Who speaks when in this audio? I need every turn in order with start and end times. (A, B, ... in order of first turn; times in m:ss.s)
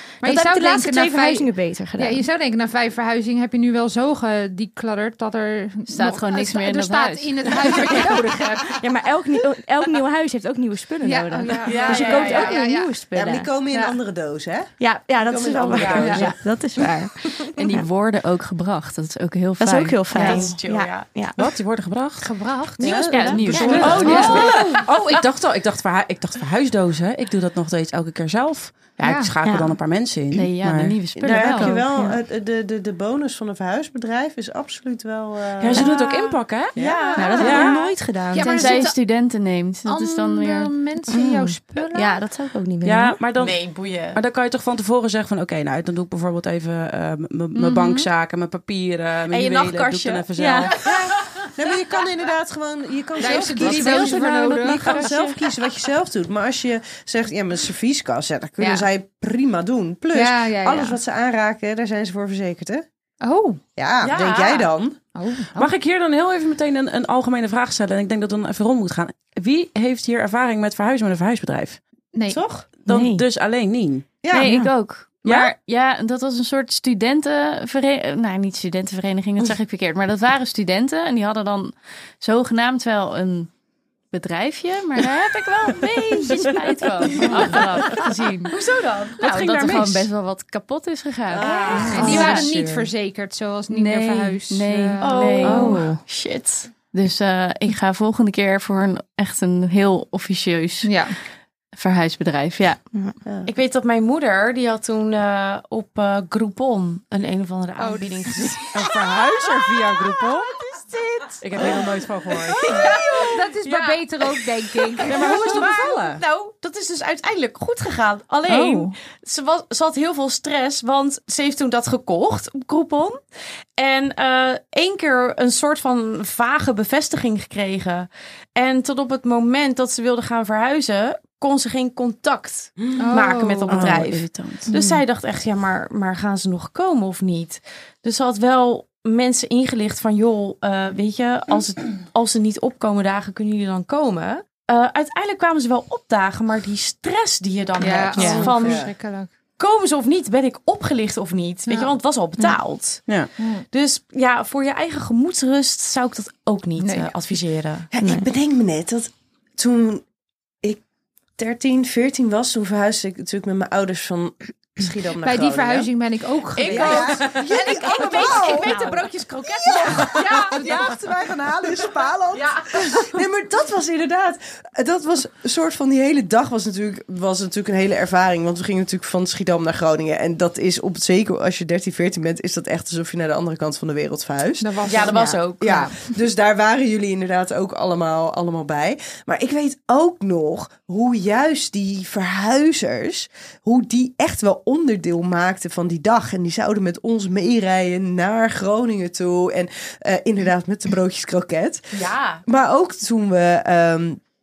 0:00.2-0:02.2 A
0:00.2-0:08.8 B
0:05.9-0:07.5 C
0:08.7-0:13.5 A
0:11.0-0:12.9 B
0:11.6-0:12.5 D
0:11.7-0:12.5 E
0:13.1-0:16.4 F
0:14.8-0:17.8 A
0:15.7-0:16.3 E
0:16.0-0:16.3 B
0:17.6-0:20.5 C
0:19.6-0:21.4 A
0:20.1-0:21.1 E
0:21.4-0:22.3 D
0:22.2-0:24.6 B
0:22.8-0:24.5 F
0:22.8-0:24.3 C
0:23.3-0:31.7 D
0:23.6-0:24.8 E
0:23.8-0:24.4 A
0:29.0-0:29.3 B
0:29.4-0:29.8 A
0:30.3-0:31.8 C
0:31.2-0:32.2 A
0:31.2-0:35.9 F
0:35.6-0:37.9 D
0:36.8-0:37.6 F
0:36.8-0:37.7 E
0:37.2-0:38.6 A
0:38.3-0:39.0 B
0:38.4-0:40.7 C
0:39.8-0:42.2 B
0:41.1-0:43.2 A
0:42.8-0:50.8 D
0:43.4-0:44.2 E
0:47.5-0:48.1 B
0:49.3-0:51.1 E
0:50.4-0:50.7 A
0:51.5-1:02.8 F
0:53.2-0:55.0 B
0:53.6-0:54.2 E
0:54.8-0:55.3 E
0:54.9-0:55.2 D
0:58.6-0:58.8 B
1:00.1-1:01.0 B
1:03.2-1:03.6 B
1:03.8-1:05.0 F
1:04.0-1:04.7 E
1:05.1-1:05.7 B
1:05.5-1:11.8 D
1:12.1-1:12.4 B
1:12.3-1:14.2 D
1:12.9-1:13.2 A
1:14.2-1:14.5 F
1:14.3-1:23.5 C
1:14.3-1:14.7 A
1:15.2-1:15.5 D
1:24.1-1:28.6 C
1:26.1-1:26.5 E
1:27.1-1:27.6 E
1:28.5-1:29.3 E
1:29.2-1:30.0 D
1:29.2-1:32.4 C
1:31.3-1:32.8 F
1:31.5-1:32.4 D
1:31.7-1:32.4 E
1:31.9-1:35.8 B
1:33.7-1:35.9 C
1:35.0-1:36.7 E
1:35.4-1:36.0 A
1:36.9-1:40.9 C
1:40.8-1:41.2 B
1:41.7-1:42.8 C
1:43.4-2:03.2 E
1:47.8-1:48.6 B
1:48.7-1:50.6 D
1:51.4-1:52.9 D
1:52.7-1:55.5 B
1:55.0-1:56.2 D
1:55.1-1:56.0 F
1:58.4-1:58.9 B
2:03.8-2:28.8 E
2:13.0-2:13.9 B
2:13.7-2:14.7 D
2:14.7-2:15.0 A
2:27.8-2:29.3 B
2:28.2-2:28.5 A
2:28.4-2:28.9 F
2:29.6-2:33.0 E
2:33.4-2:33.6 B
2:33.7-2:37.9 E
2:36.8-2:37.1 B
2:37.9-2:40.0 F
2:38.0-2:38.3 A
2:41.4-2:45.9 F
2:45.2-2:47.4 B
2:46.6-2:51.0 E
2:46.6-2:48.8 F
2:49.4-3:24.2 F
2:50.3-2:50.8 B
2:52.3-2:53.0 E
3:04.6-3:06.0 B
3:04.8-3:05.8 E
3:21.9-3:22.4 E